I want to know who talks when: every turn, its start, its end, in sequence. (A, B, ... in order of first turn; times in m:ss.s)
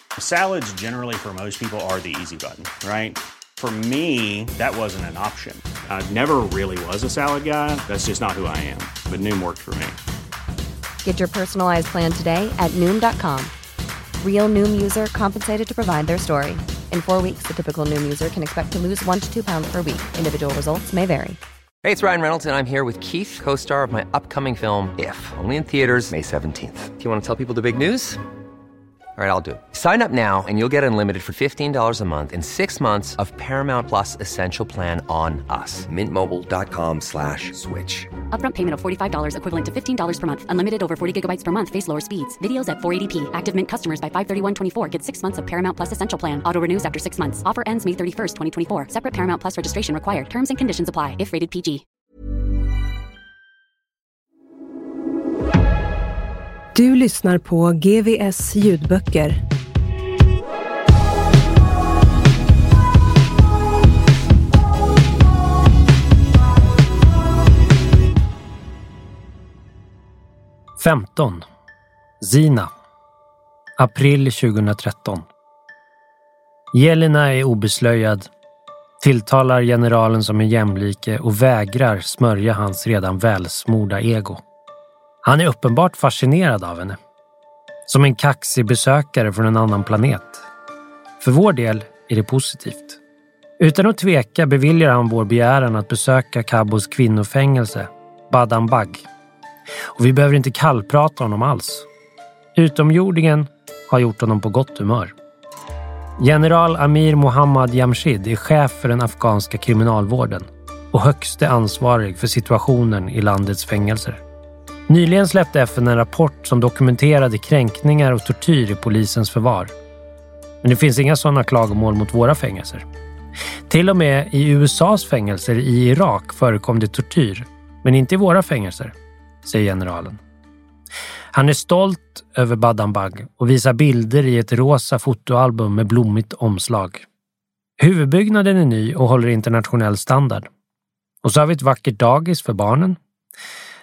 0:00.2-0:10.0 A
0:11.0-0:13.5 B
0:14.2-0:21.4 B
0:21.8-0:28.2 C
0:29.2-0:38.1 C
0:38.3-0:51.8 D
0:56.7-0:59.4 E
1:10.8-1:11.4 F
1:12.2-1:12.7 F
1:13.8-1:15.3 F
1:16.7-1:18.3 F
1:19.0-1:24.4 F
1:25.2-1:27.0 F
1:27.9-1:30.4 F
1:31.2-1:33.0 F
1:33.6-1:39.1 F
1:40.0-1:41.9 F
1:42.6-1:45.1 F
1:46.2-1:54.2 F
1:54.9-1:59.7 F
2:00.6-2:02.8 F
2:03.7-2:10.2 F
2:11.3-2:17.1 F
2:17.8-2:20.5 F
2:21.2-2:23.0 F